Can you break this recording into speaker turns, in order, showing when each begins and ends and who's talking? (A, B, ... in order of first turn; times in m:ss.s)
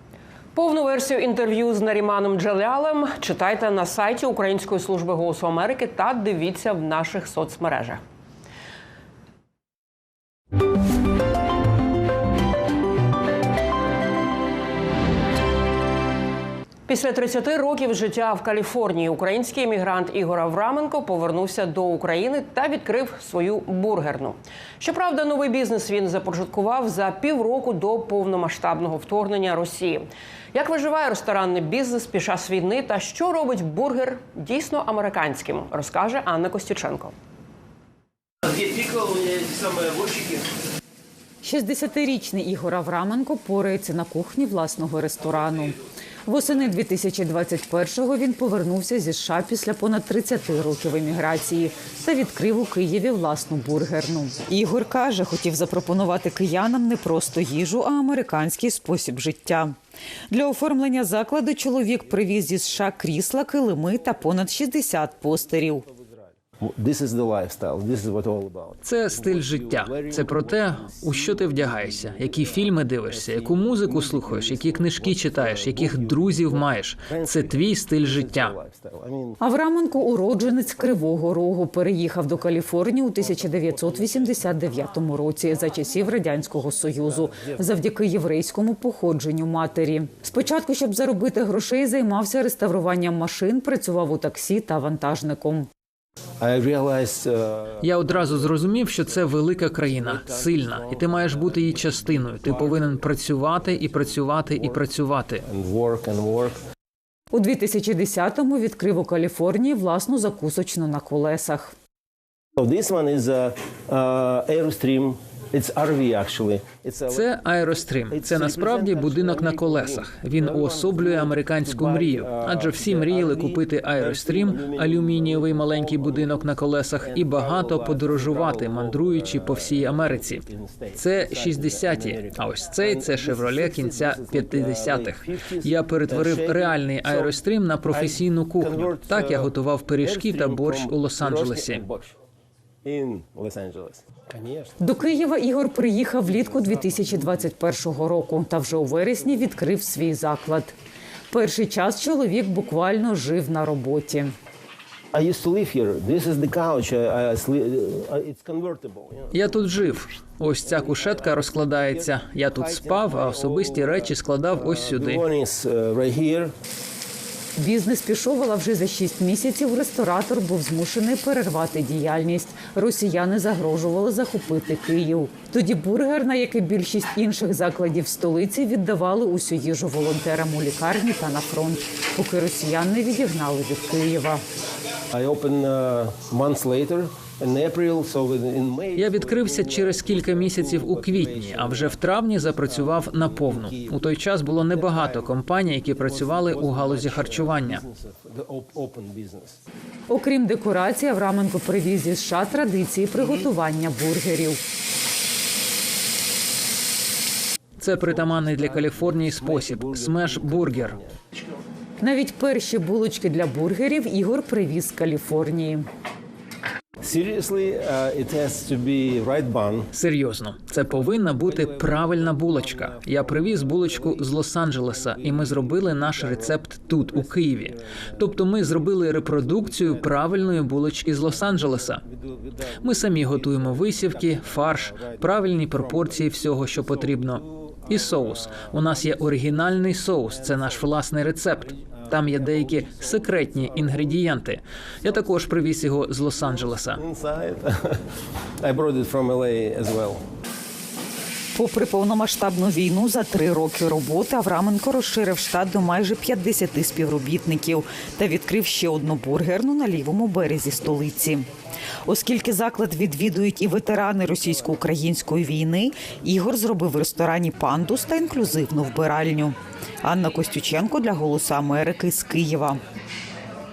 0:00.5-0:08.0 A
0:16.9-0:37.1 A
0:38.4-0:40.5 B
0:41.4-0:45.7 C
0:46.2-0:59.8 C
1:00.3-1:05.8 C
1:05.8-1:19.4 B
1:08.8-1:18.5 D
1:19.4-1:35.7 C
1:23.2-1:24.8 B
1:27.0-1:27.7 B
1:36.4-1:46.6 B
1:37.8-1:45.4 D
1:47.3-1:51.7 C
1:52.6-1:57.4 B
1:57.1-2:21.8 D
1:58.0-2:22.2 B
2:22.8-2:24.8 B
2:24.8-2:30.7 C
2:26.2-2:27.5 B
2:31.3-2:34.3 C
2:35.1-2:39.8 B
2:39.3-2:45.2 D
2:40.6-2:46.5 B
2:47.6-3:04.4 C
3:05.1-3:19.6 B
3:08.9-3:17.8 D
3:20.1-3:24.6 C
3:27.8-3:31.0 D
3:27.8-3:31.2 B
3:32.0-3:35.9 C
3:37.0-3:39.9 B
3:39.9-3:52.0 D
3:40.8-4:10.2 B
3:52.8-4:07.0 D
4:11.6-4:21.5 C
4:22.1-4:32.8 C